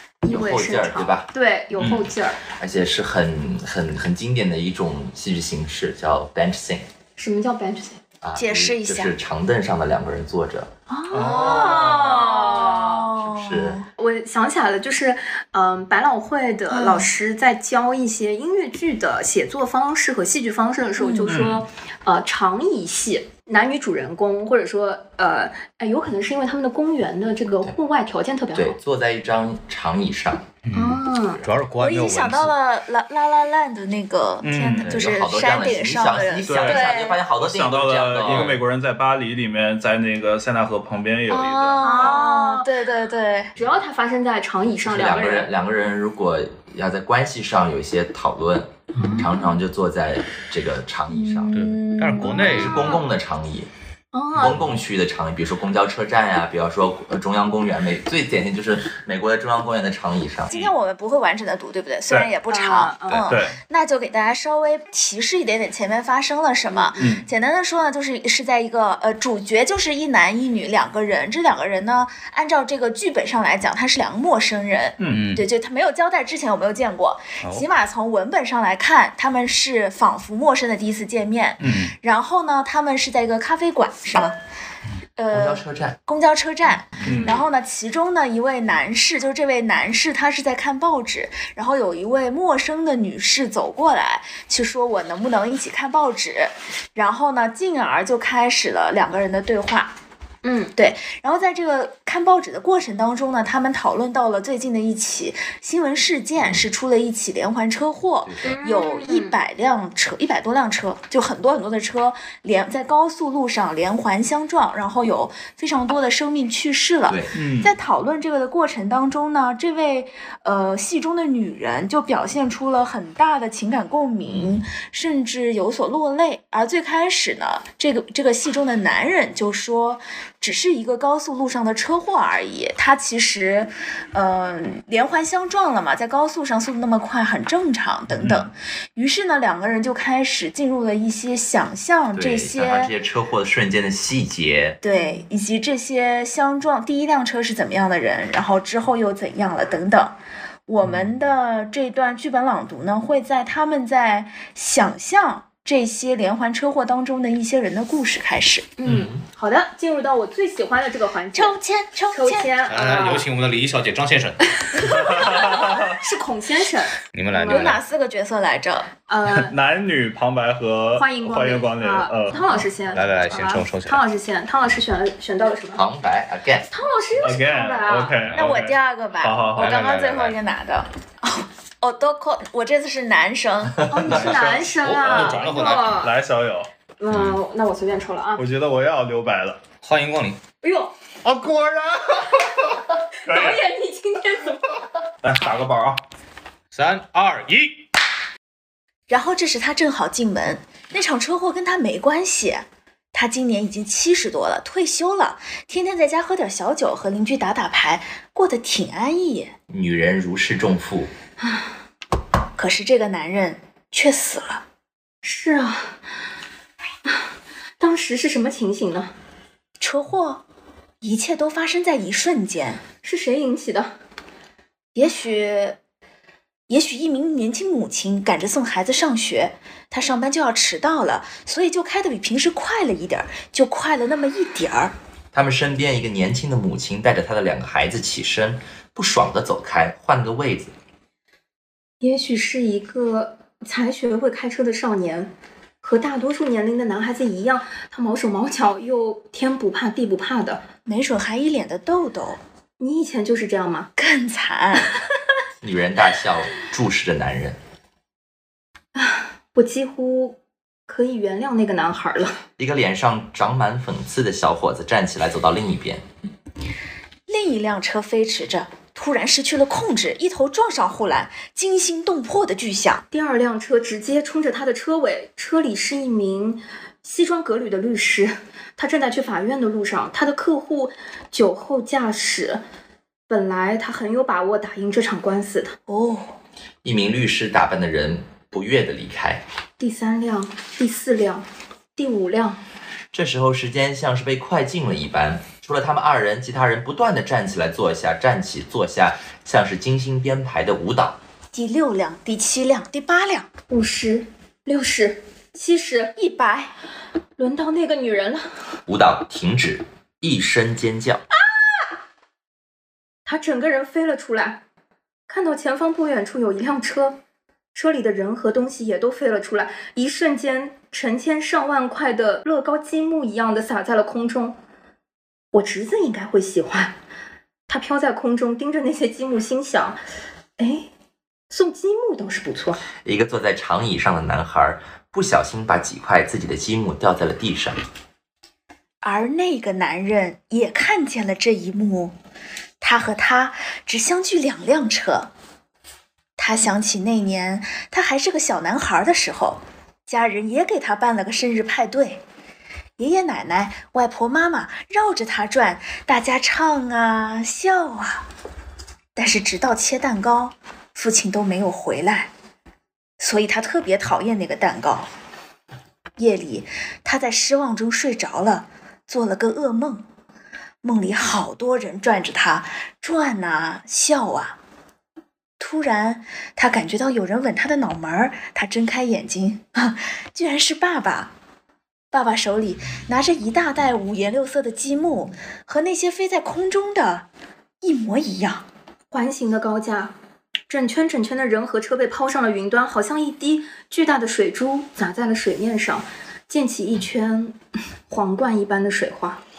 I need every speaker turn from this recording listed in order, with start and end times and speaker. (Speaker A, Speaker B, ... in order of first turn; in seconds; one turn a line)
Speaker A: 0.2-2.4
Speaker B: 0.3-6.9
Speaker A: 7.2-8.0
Speaker B: 8.2-10.7
Speaker C: 8.4-9.2
Speaker A: 10.9-13.1
Speaker C: 11.1-13.9
Speaker D: 11.1-12.3
Speaker B: 13.2-13.8
Speaker A: 14.0-28.8
Speaker C: 16.7-17.1
Speaker C: 21.0-21.3
Speaker D: 21.3-21.7
Speaker B: 28.5-30.6
Speaker E: 30.6-32.5
Speaker A: 30.7-31.4
Speaker C: 31.8-37.2
Speaker D: 34.4-35.0
Speaker B: 34.8-38.6
Speaker D: 36.5-42.2
Speaker C: 41.3-43.5
Speaker A: 41.8-42.7
Speaker A: 43.6-45.5
Speaker B: 44.8-51.5
Speaker A: 49.0-49.5
Speaker C: 51.1-52.7
Speaker E: 51.5-53.0
Speaker B: 52.4-53.7
Speaker A: 52.6-53.0
Speaker A: 54.1-54.6
Speaker B: 54.4-60.5
Speaker C: 60.5-84.4
Speaker A: 62.5-63.3
Speaker D: 63.3-63.6
Speaker A: 66.7-67.2
Speaker D: 67.0-67.3
Speaker E: 75.1-75.5
Speaker E: 77.4-77.7
Speaker C: 85.2-100.0
Speaker B: 85.3-86.0
Speaker D: 87.0-87.4
Speaker A: 100.4-100.7
Speaker C: 100.8-142.9
Speaker B: 106.4-106.7
Speaker B: 108.2-108.5
Speaker A: 108.4-109.4
Speaker D: 117.3-117.7
Speaker B: 124.3-124.6
Speaker D: 138.1-138.5
Speaker B: 142.1-144.8
Speaker C: 144.8-150.2
Speaker C: 150.7-158.7
Speaker A: 158.8-161.6
Speaker B: 158.8-159.2
Speaker C: 161.3-162.5
Speaker A: 162.1-163.3
Speaker E: 162.7-164.5
Speaker A: 164.8-167.8
Speaker D: 164.9-165.9
Speaker E: 167.1-167.8
Speaker C: 167.5-168.9
Speaker A: 169.1-169.5
Speaker D: 169.3-172.4
Speaker A: 170.9-175.8
Speaker E: 172.9-174.0
Speaker B: 175.8-176.7
Speaker A: 176.7-178.2
Speaker D: 177.2-179.7
Speaker C: 178.3-183.8
Speaker E: 179.6-180.4
Speaker A: 183.9-186.1
Speaker D: 184.0-186.7
Speaker E: 184.8-186.1
Speaker A: 187.0-188.4
Speaker D: 188.4-189.6
Speaker E: 189.8-190.4
Speaker A: 190.6-190.9
Speaker D: 191.2-192.5
Speaker D: 193.3-193.6
Speaker A: 193.3-194.7
Speaker D: 195.2-196.0
Speaker E: 196.7-197.9
Speaker C: 199.1-209.5
Speaker B: 209.7-211.1
Speaker A: 211.4-211.7
Speaker C: 212.6-214.6
Speaker A: 215.2-215.9
Speaker A: 217.8-219.1
Speaker C: 219.8-220.4
Speaker C: 221.0-222.8
Speaker A: 223.0-223.9
Speaker C: 224.9-225.8
Speaker C: 226.7-234.9
Speaker B: 235.3-240.7
Speaker A: 242.0-245.3
Speaker A: 245.8-250.6
Speaker C: 250.8-252.4
Speaker A: 252.8-253.9
Speaker C: 254.0-254.9
Speaker B: 255.6-257.6
Speaker A: 258.9-262.4
Speaker B: 262.6-266.0
Speaker C: 267.3-273.1
Speaker A: 273.1-282.6
Speaker A: 283.3-285.8
Speaker C: 285.9-286.4
Speaker B: 286.8-289.4
Speaker A: 289.8-292.6
Speaker B: 293.1-301.2
Speaker C: 301.5-303.5
Speaker A: 303.7-306.1
Speaker C: 306.2-306.8
Speaker A: 307.4-308.5
Speaker B: 308.9-311.2
Speaker A: 313.3-314.6
Speaker A: 315.3-317.2
Speaker A: 317.8-324.6
Speaker A: 325.5-327.0
Speaker A: 327.7-330.0
Speaker A: 330.6-330.9
Speaker A: 331.5-332.8
Speaker B: 333.0-337.8
Speaker C: 339.0-342.1
Speaker C: 342.8-345.3
Speaker C: 346.4-352.2
Speaker C: 353.0-358.3
Speaker C: 359.1-362.3
Speaker C: 363.2-365.1
Speaker C: 366.2-370.1
Speaker C: 370.8-374.6
Speaker C: 375.6-381.3
Speaker C: 382.1-387.3
Speaker C: 387.8-388.6
Speaker A: 389.1-390.1
Speaker A: 390.7-397.6
Speaker A: 398.1-399.4